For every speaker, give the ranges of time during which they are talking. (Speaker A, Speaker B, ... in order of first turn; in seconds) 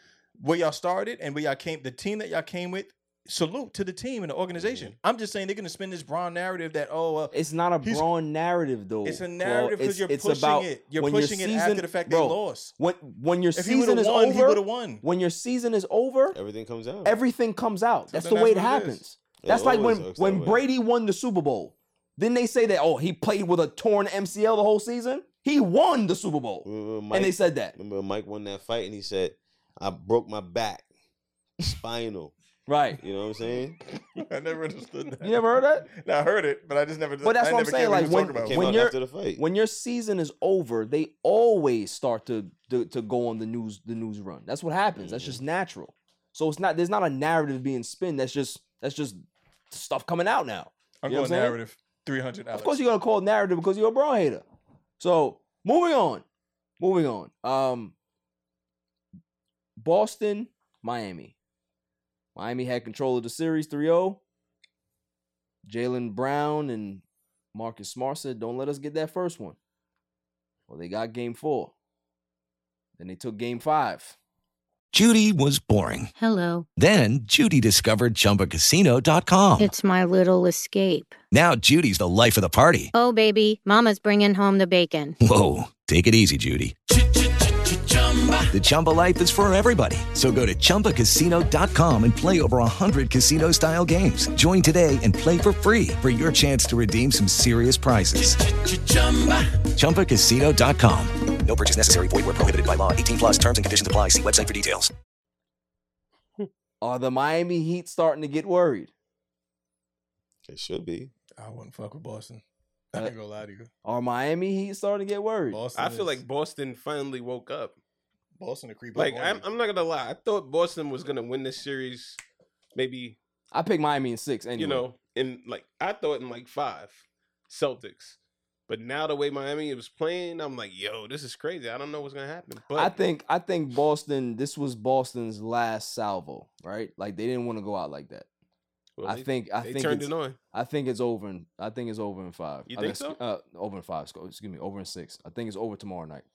Speaker A: 0.4-8.1, 9.1-12.8, 13.6-15.0, 18.1-19.0, 34.1-38.8, 51.0-52.9, 111.4-112.4, 112.9-113.7, 115.5-116.2, 118.4-119.4
Speaker B: 4.5-5.0, 16.3-17.2, 19.4-20.6, 26.6-30.9, 31.6-32.3, 32.9-33.8, 38.4-39.4, 45.0-45.4, 110.5-111.1
Speaker C: 7.3-16.4, 17.0-27.8, 32.7-33.0, 35.2-35.9, 37.2-51.6, 52.5-54.5, 55.0-56.2, 56.8-57.9, 59.8-61.4, 62.4-64.2, 65.7-67.0, 67.5-69.6, 70.7-71.7, 73.0-74.2, 106.8-108.9, 113.8-115.6, 123.5-124.8, 132.7-138.3, 139.0-146.2
Speaker D: 74.9-76.1, 76.8-79.7, 81.3-82.9, 85.2-87.0, 88.4-98.5, 99.7-104.9
Speaker E: 76.2-76.7, 79.6-81.2, 82.9-85.2
Speaker F: 115.8-117.8, 119.0-122.2, 122.8-123.2, 124.6-132.9, 139.0-140.4, 142.7-143.2